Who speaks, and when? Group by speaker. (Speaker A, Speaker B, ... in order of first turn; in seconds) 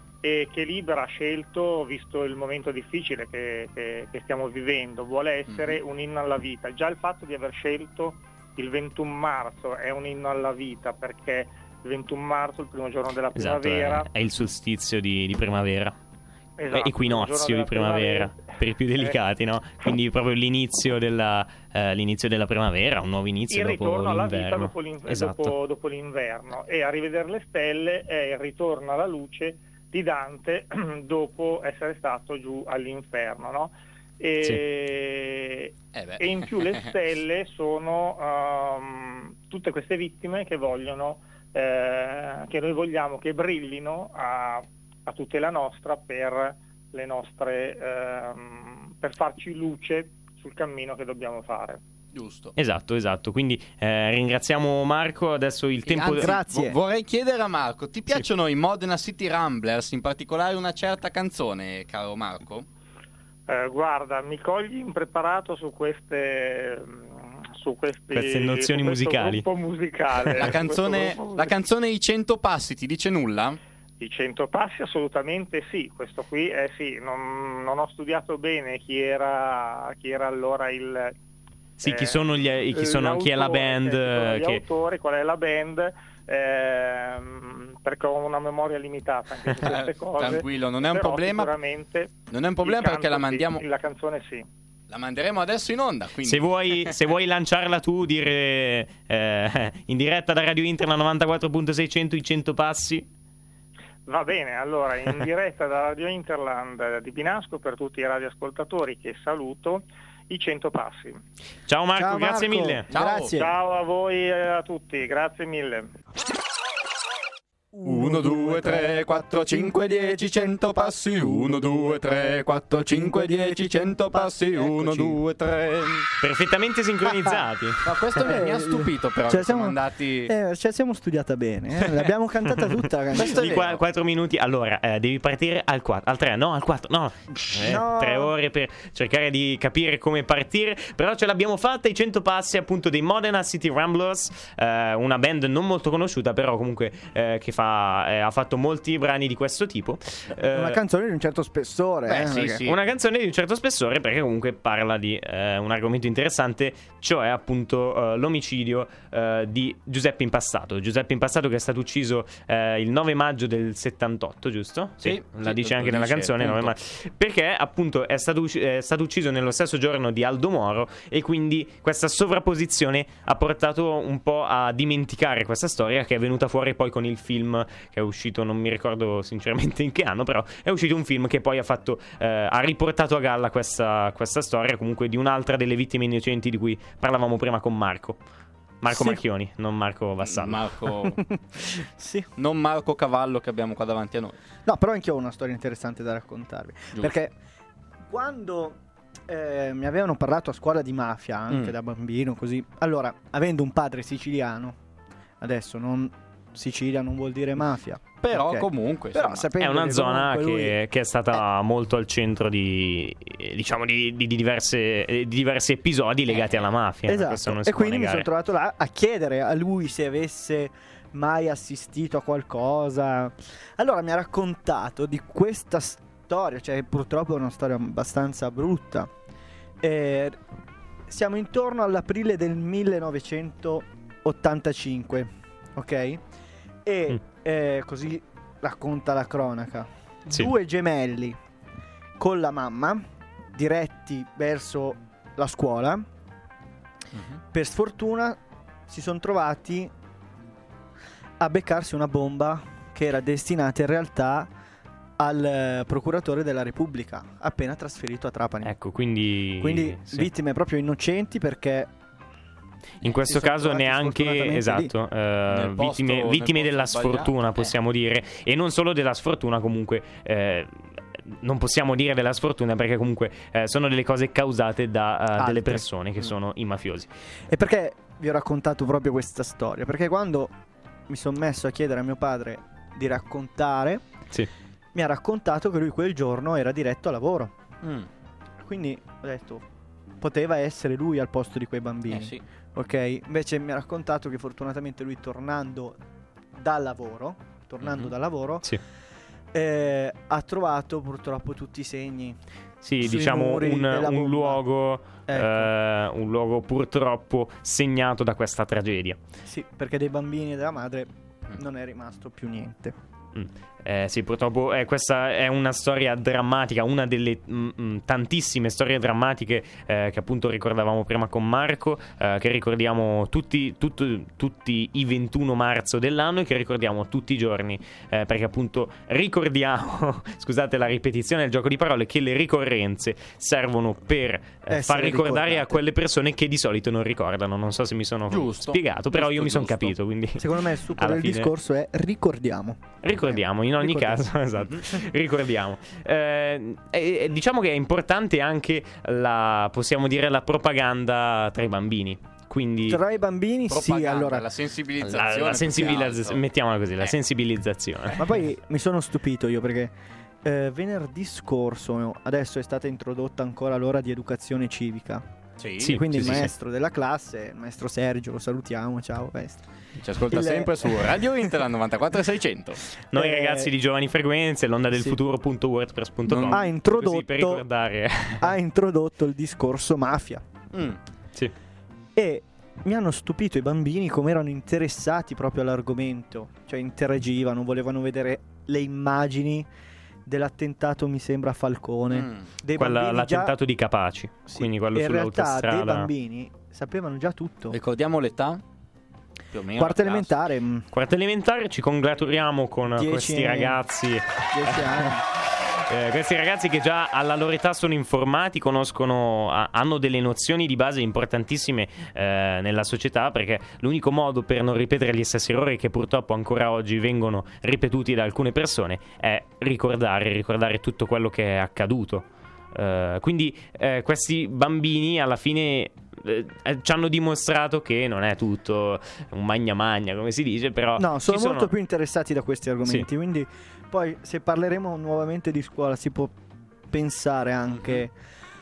Speaker A: 0.2-14.1, 16.6-18.3, 23.5-51.8, 63.5-71.5, 74.0-81.1, 81.8-94.5, 104.0-111.2, 113.3-115.9
Speaker B: 5.5-5.8, 35.9-36.9, 52.1-52.5, 55.9-62.7, 70.3-73.6, 89.6-91.5, 92.3-93.6, 94.9-97.0, 112.9-113.3, 117.8-126.1, 127.8-130.3, 133.1-133.8, 152.1-152.8, 165.0-166.7, 190.2-191.2, 192.3-194.4, 201.5-201.7, 208.2-209.5, 247.1-247.4, 265.5-267.7, 287.8-288.1, 292.1-292.4, 297.8-298.1, 338.3-339.9, 353.7-356.4, 365.6-366.4, 370.0-372.8, 376.3-376.6, 380.7-381.0, 392.1-392.5, 397.7-398.6, 399.5-400.3, 437.7-438.0
Speaker C: 13.3-15.9, 16.7-25.5, 52.6-56.3, 68.1-69.5, 81.8-84.6, 96.2-103.0, 111.7-112.8, 126.2-127.8, 133.1-150.8, 152.4-188.2, 188.8-190.7, 209.6-218.3, 258.6-260.3, 263.0-277.1, 302.8-309.2, 313.3-341.5, 343.0-353.0, 355.0-358.2, 365.8-366.5, 373.1-378.5, 392.8-396.1, 400.9-431.7
Speaker D: 56.2-56.8, 112.0-113.5, 117.7-119.7, 122.9-125.2, 128.1-133.6, 137.6-138.3, 150.5-152.6, 188.9-189.2, 191.1-192.3, 194.7-197.3, 198.1-204.8, 205.4-210.8, 217.1-229.1, 229.8-230.4, 231.1-236.2, 236.8-241.4, 242.2-246.0, 247.5-249.9, 251.4-254.5, 255.2-258.7, 259.6-261.9, 263.0-264.9, 275.4-275.8, 277.5-280.5, 281.1-284.0, 284.9-287.5, 288.6-289.6, 290.2-296.0, 296.6-298.7, 299.5-302.4, 303.0-304.6, 305.3-305.7, 309.4-312.9, 334.7-335.8, 340.4-344.2, 352.9-354.4, 358.2-365.2, 365.8-369.6, 370.3-371.3, 373.1-373.7, 376.5-377.6, 378.4-380.4, 382.1-389.6, 390.2-393.5, 394.5-397.8, 399.8-400.9, 402.9-403.8, 404.5-405.2, 431.0-436.3, 436.9-438.1